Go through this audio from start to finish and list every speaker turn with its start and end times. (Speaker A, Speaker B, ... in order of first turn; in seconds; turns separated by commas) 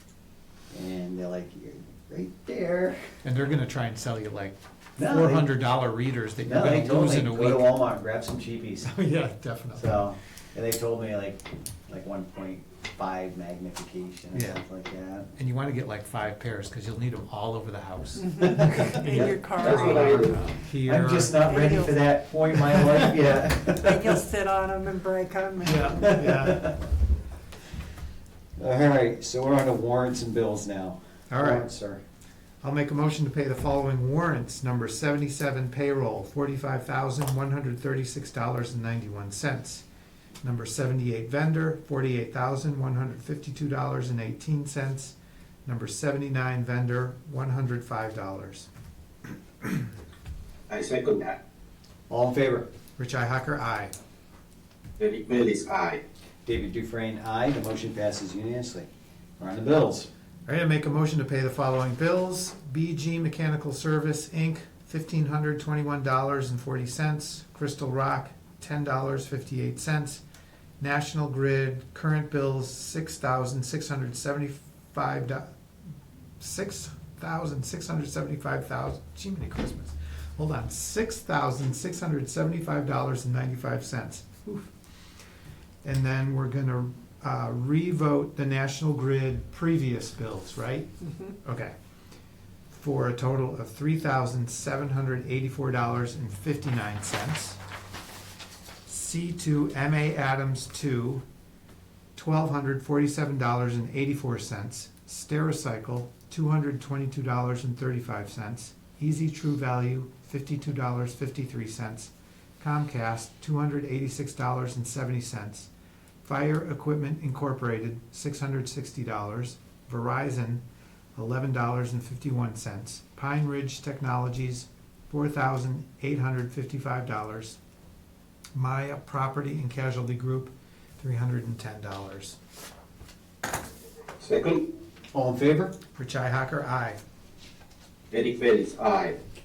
Speaker A: 0.7-3.0, Speaker B: 3.2-7.8, Speaker A: 5.0-5.5, Speaker A: 6.4-8.9, Speaker B: 8.8-10.0, Speaker A: 9.8-15.3, Speaker B: 14.3-14.6, Speaker B: 15.4-21.4, Speaker C: 18.2-20.6, Speaker A: 18.4-19.3, Speaker D: 19.4-20.5, Speaker A: 20.8-24.2, Speaker C: 21.4-22.1, Speaker B: 22.8-23.1, Speaker C: 23.7-26.0, Speaker B: 25.6-26.7, Speaker A: 25.9-26.8, Speaker A: 28.6-32.0, Speaker B: 31.3-31.6, Speaker B: 32.6-39.8, Speaker B: 40.4-48.7, Speaker D: 50.7-51.4, Speaker A: 52.1-52.7, Speaker B: 53.0-53.9, Speaker D: 55.0-56.0, Speaker A: 56.5-58.9, Speaker A: 59.4-60.1, Speaker B: 60.5-70.2, Speaker B: 70.8-75.5, Speaker B: 76.4-84.7, Speaker B: 85.8-91.7, Speaker B: 92.7-97.6, Speaker B: 98.8-101.2, Speaker B: 102.2-115.7, Speaker B: 116.2-120.6, Speaker B: 121.2-127.6, Speaker B: 128.5-132.4, Speaker D: 134.2-134.6, Speaker A: 135.1-135.7, Speaker B: 135.9-137.0, Speaker D: 138.1-139.2